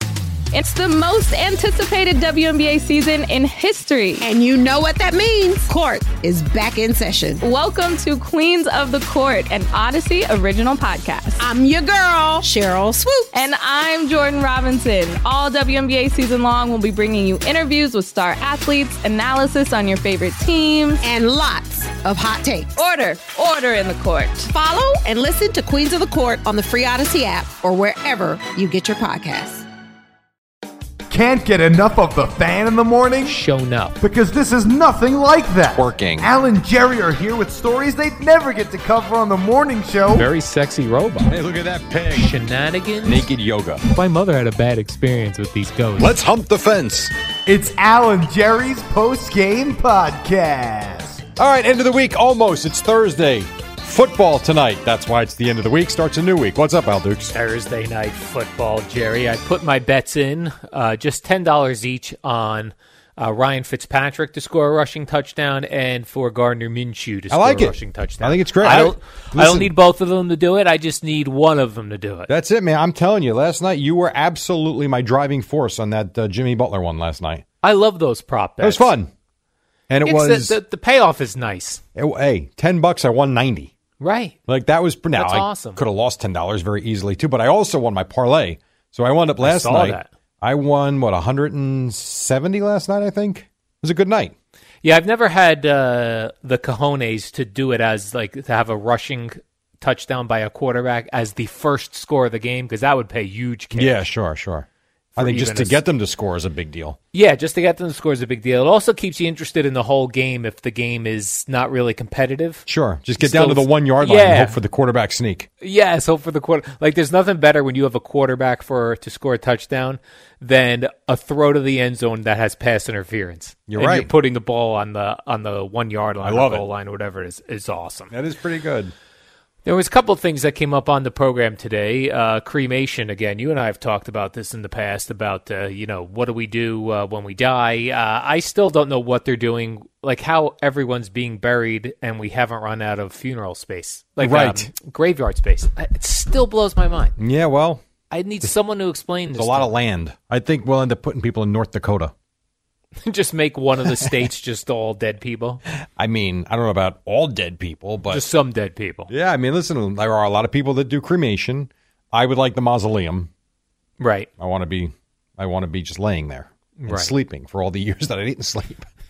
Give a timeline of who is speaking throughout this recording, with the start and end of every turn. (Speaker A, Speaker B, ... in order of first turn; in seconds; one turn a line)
Speaker A: 0.5-4.2
Speaker B: 4.2-7.4
Speaker A: 7.4-11.5
Speaker B: 11.4-13.4
Speaker A: 13.3-21.0
Speaker B: 21.0-22.8
Speaker A: 22.8-24.5
Speaker B: 24.5-29.7
Speaker C: 31.1-33.4
Speaker D: 33.2-34.0
Speaker C: 34.0-40.3
Speaker E: 35.7-36.3
Speaker D: 40.1-41.4
Speaker E: 41.2-42.3
Speaker D: 42.1-43.3
Speaker E: 43.0-43.8
Speaker D: 43.9-46.2
Speaker E: 46.0-47.1
Speaker C: 47.5-51.2
Speaker E: 51.4-57.3
Speaker D: 57.3-72.3
Speaker E: 67.3-69.7
Speaker E: 72.3-77.5
Speaker D: 77.6-78.9
Speaker E: 78.6-79.1
Speaker E: 79.9-80.6
Speaker D: 80.0-81.8
Speaker E: 82.0-83.7
Speaker D: 84.0-84.4
Speaker E: 84.5-94.3
Speaker D: 85.1-85.8
Speaker D: 89.4-90.1
Speaker D: 94.8-104.0
Speaker E: 103.7-107.0
Speaker D: 105.2-105.8
Speaker D: 107.1-112.7
Speaker E: 112.7-115.5
Speaker D: 113.2-114.6
Speaker D: 115.6-128.1
Speaker E: 123.7-124.1
Speaker E: 126.2-126.7
Speaker E: 128.1-128.9
Speaker D: 129.7-147.2
Speaker E: 144.2-144.7
Speaker E: 147.2-147.8
Speaker D: 148.1-149.7
Speaker E: 149.3-152.1
Speaker D: 153.0-155.6
Speaker E: 156.0-158.3
Speaker D: 158.1-159.1
Speaker E: 159.1-163.3
Speaker D: 164.0-164.3
Speaker E: 164.4-168.9
Speaker D: 166.8-167.1